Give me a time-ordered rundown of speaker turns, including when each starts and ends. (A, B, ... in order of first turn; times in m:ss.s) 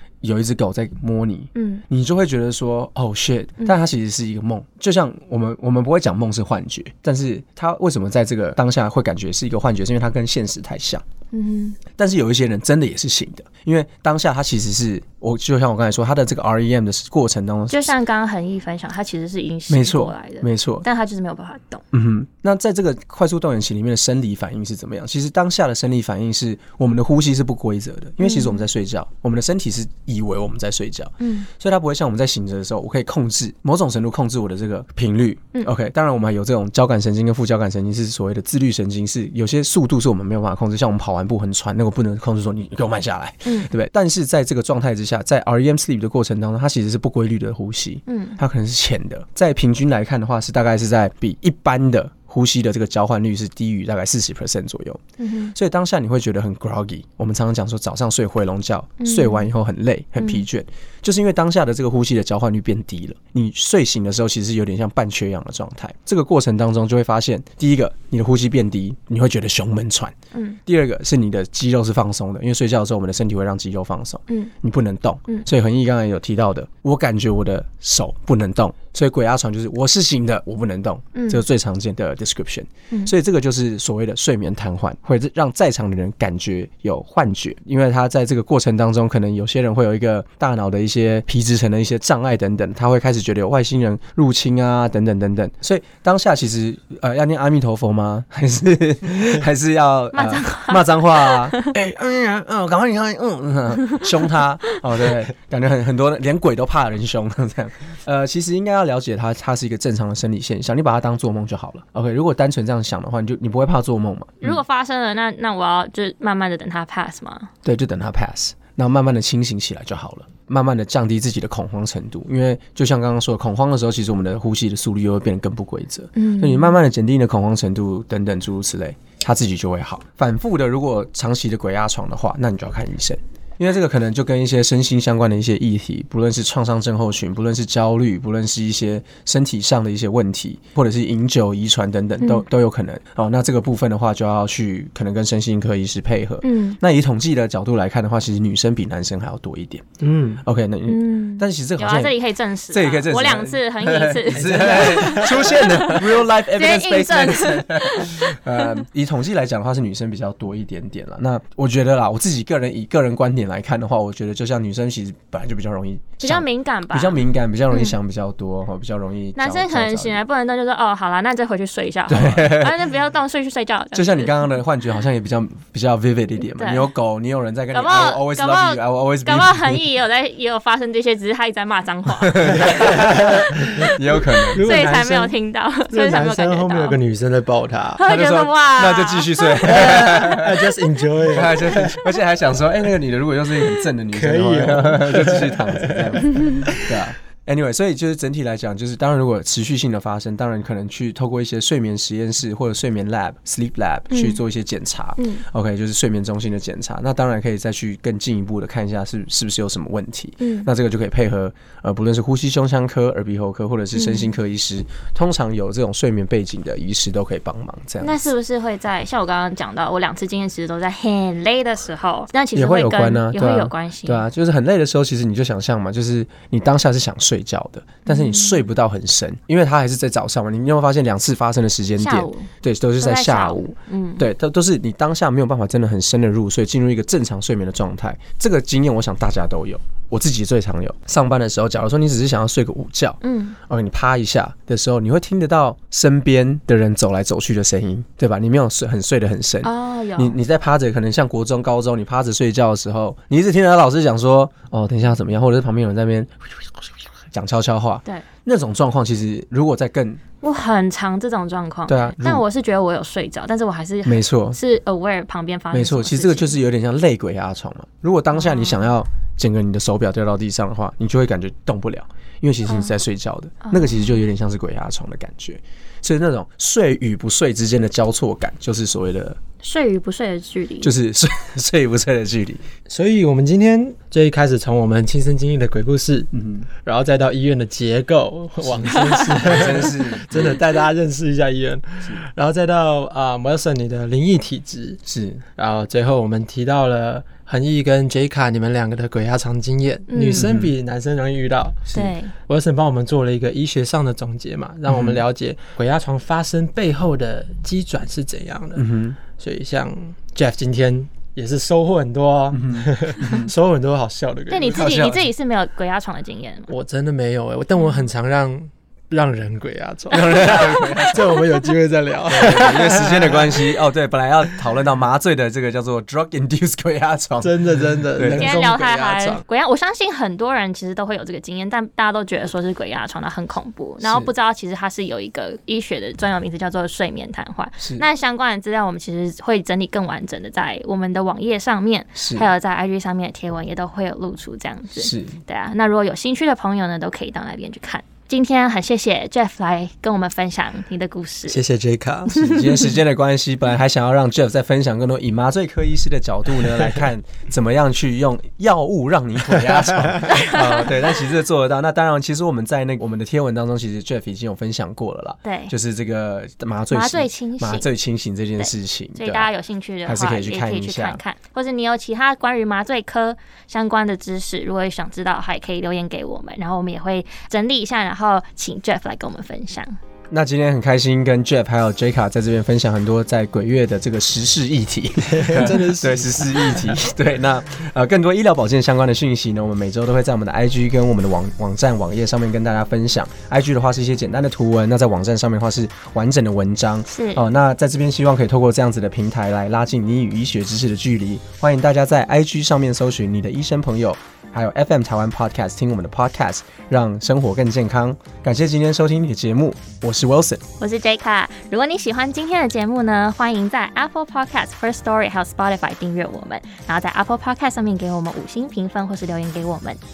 0:00.2-0:11.0 A
0:01.6-0:01.8 B
0:11.3-0:11.8 B
0:11.9-0:17.9 A
0:17.7-0:21.8 B
0:19.7-0:20.9 A
0:21.9-0:55.0 A
0:28.2-0:28.6 B
0:31.2-0:31.5 B
0:43.4-0:43.7 B
0:48.1-0:48.4 B
0:55.2-0:55.5 B
0:55.5-1:10.2 A
0:59.0-0:59.5 B
1:00.2-1:00.4 B
1:10.7-1:54.6 A
1:21.2-1:21.4 B
1:40.1-1:41.7 B
1:54.4-1:57.5 B
1:57.6-2:32.2 A
2:06.2-2:06.8 B
2:22.2-2:22.4 B
2:26.4-2:26.8 B
2:30.0-2:30.4 C
2:30.9-2:38.7 B
2:32.7-2:50.2 A
2:34.3-2:35.4 C
2:46.2-2:48.0 B
2:49.4-2:54.3 B
2:52.1-2:52.8 A
2:53.9-2:59.8 A
2:56.5-2:56.9 B
2:57.7-3:03.0 B
3:02.3-3:04.7 A
3:02.7-3:03.9 C
3:04.5-3:05.3 C
3:04.6-3:07.0 B
3:05.9-3:08.0 C
3:08.0-3:09.9 B
3:08.1-3:10.7 A
3:09.6-3:12.0 C
3:11.3-3:38.2 A
3:14.1-3:16.9 C
3:24.1-3:24.4 B
3:25.2-3:25.4 B
3:30.4-3:30.7 B
3:34.0-3:34.3 B
3:38.0-3:44.2 B
3:42.6-4:20.2 A
3:48.1-3:48.7 B
3:52.0-3:54.3 B
4:03.2-4:03.6 B
4:09.6-4:10.4 B
4:20.4-4:26.6 B
4:21.9-4:22.4 A
4:24.0-4:24.6 A
4:25.7-4:39.4 A
4:28.4-4:28.8 B
4:32.7-4:33.0 B
4:33.6-4:34.1 B
4:39.6-4:41.0 B
4:40.8-4:42.6 A
4:42.9-4:55.0 C
4:46.3-4:46.7 A
4:48.7-4:50.6 A
4:55.1-4:55.4 A
4:55.6-5:01.9 C
5:00.1-5:00.5 B
5:00.3-5:00.7 A
5:01.9-5:02.2 A
5:01.9-5:02.3 B
5:02.5-5:14.9 C
5:04.9-5:05.2 A
5:08.8-5:09.2 A
5:12.5-5:13.5 A
5:14.5-5:16.7 B
5:14.7-5:15.3 A
5:16.7-5:23.6 C
5:20.1-5:21.4 A
5:20.1-5:21.1 B
5:22.3-5:27.6 A
5:27.4-5:29.4 C
5:28.2-5:28.9 A
5:28.2-5:51.6 B
5:34.0-5:34.3 A
5:42.2-5:42.5 A
5:45.0-5:45.4 A
5:51.5-5:52.4 C
5:52.3-5:52.9 B
5:52.3-6:09.5 A
5:59.8-6:00.1 C
6:00.3-6:01.0 B
6:05.4-6:05.7 B
6:06.9-6:07.9 B
6:08.6-6:20.0 B
6:10.1-6:11.2 A
6:20.3-6:50.6 A
6:25.2-6:26.7 C
6:37.1-6:37.4 B
6:50.8-7:00.0 B